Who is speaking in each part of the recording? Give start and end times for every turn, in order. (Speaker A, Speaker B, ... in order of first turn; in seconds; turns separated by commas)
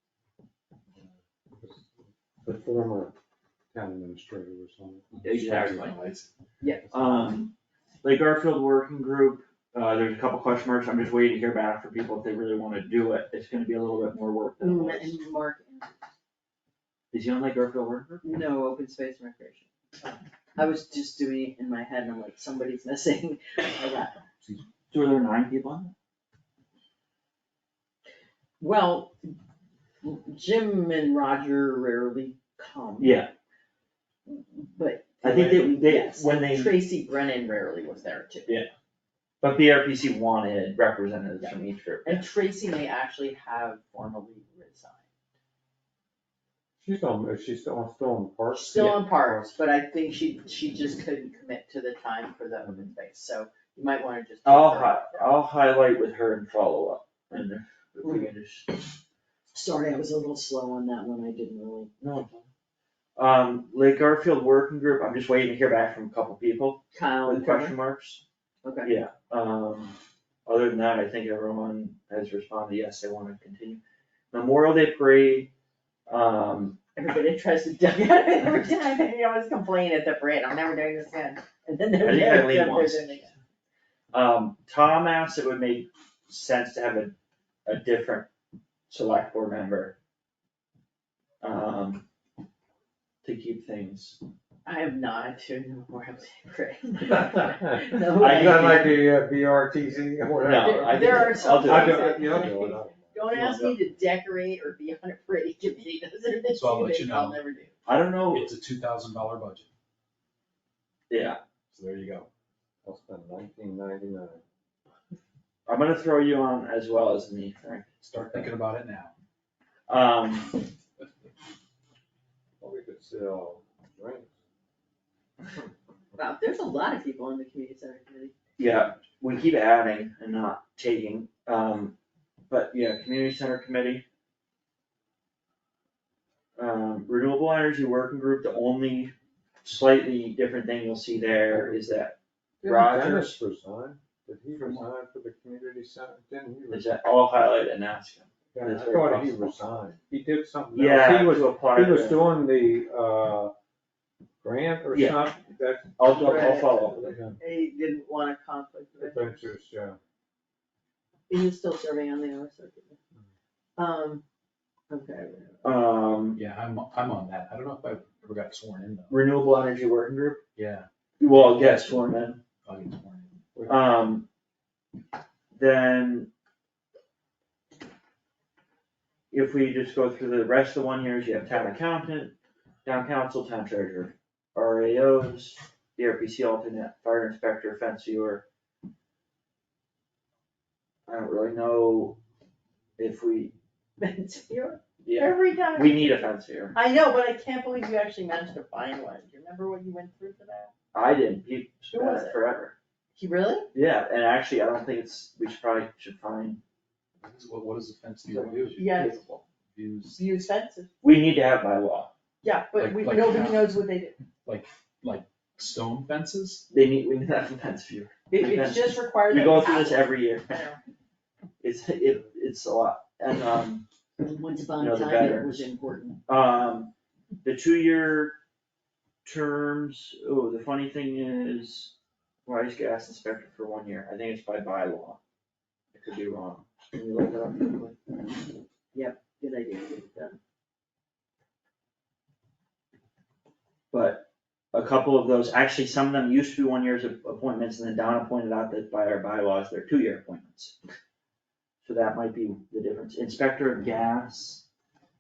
Speaker A: 1.0-1.9, Speaker A: 2.4-3.1, Speaker A: 3.7-5.8, Speaker B: 5.2-6.3, Speaker C: 5.2-6.0, Speaker D: 6.6-7.3, Speaker C: 6.9-7.5, Speaker C: 8.0-15.2, Speaker D: 14.6-16.1, Speaker C: 17.1-18.2, Speaker D: 18.2-24.2, Speaker C: 24.9-25.9, Speaker D: 28.6-29.1, Speaker D: 30.0-33.2, Speaker C: 33.0-33.3, Speaker D: 34.3-38.6, Speaker C: 35.2-36.8, Speaker C: 39.4-42.3, Speaker D: 42.0-45.0, Speaker A: 46.8-49.6, Speaker D: 48.5-55.4, Speaker C: 54.4-58.7, Speaker D: 59.5-61.9, Speaker C: 62.0-62.5, Speaker C: 63.2-68.2, Speaker D: 66.9-67.8, Speaker D: 68.6-68.9, Speaker C: 68.8-69.9, Speaker C: 70.5-73.8, Speaker C: 74.3-75.5, Speaker C: 76.1-76.8, Speaker D: 77.0-83.3, Speaker C: 82.0-83.4, Speaker C: 84.1-87.1, Speaker C: 87.7-88.3, Speaker C: 88.9-89.9, Speaker C: 91.4-92.0, Speaker C: 93.2-94.2, Speaker D: 94.6-98.9, Speaker A: 97.8-103.7, Speaker C: 98.1-98.9, Speaker C: 100.4-102.3, Speaker D: 100.6-107.8, Speaker C: 103.4-103.8, Speaker B: 106.5-107.4, Speaker C: 107.8-108.5, Speaker B: 108.3-109.7, Speaker C: 111.1-111.4, Speaker B: 111.7-112.3, Speaker A: 112.8-114.4, Speaker C: 115.7-118.5, Speaker B: 118.0-119.1, Speaker C: 119.9-120.6, Speaker A: 122.6-124.3, Speaker D: 126.2-128.3, Speaker C: 128.6-131.9, Speaker C: 132.5-134.0, Speaker C: 136.6-143.4, Speaker A: 141.5-141.8, Speaker D: 142.6-143.0, Speaker A: 142.8-146.9, Speaker B: 144.6-144.9, Speaker C: 146.7-149.5, Speaker A: 148.5-153.5, Speaker C: 150.7-152.3, Speaker A: 154.4-156.0, Speaker C: 154.9-155.3, Speaker C: 156.0-157.2, Speaker D: 156.1-159.4, Speaker A: 156.9-157.4, Speaker A: 159.0-160.0, Speaker D: 161.3-163.0, Speaker D: 163.8-164.2, Speaker D: 164.9-165.7, Speaker C: 165.6-166.4, Speaker B: 166.3-169.1, Speaker C: 169.1-170.4, Speaker B: 170.6-172.0, Speaker C: 171.2-172.4, Speaker B: 172.6-173.4, Speaker C: 173.7-174.2, Speaker C: 175.5-176.3, Speaker C: 179.3-188.4, Speaker C: 191.1-192.2, Speaker C: 193.0-193.5, Speaker D: 194.0-196.2, Speaker C: 195.0-196.8, Speaker D: 196.7-200.7, Speaker C: 200.9-202.7, Speaker D: 201.9-202.4, Speaker D: 203.1-203.7, Speaker C: 203.7-206.6, Speaker B: 207.2-209.1, Speaker C: 208.3-209.4, Speaker D: 208.7-209.2, Speaker B: 209.7-210.2, Speaker D: 210.1-210.9, Speaker C: 211.0-212.1, Speaker D: 212.4-214.2, Speaker B: 212.8-213.7, Speaker B: 214.4-216.6, Speaker C: 216.7-220.6, Speaker D: 218.3-220.8, Speaker C: 221.6-223.8, Speaker D: 224.2-226.2, Speaker C: 224.8-225.7, Speaker C: 226.3-226.9, Speaker C: 227.4-228.3, Speaker C: 229.2-231.9, Speaker C: 232.4-235.2, Speaker C: 235.9-238.2, Speaker D: 238.9-240.4, Speaker C: 243.9-250.8, Speaker C: 251.8-254.6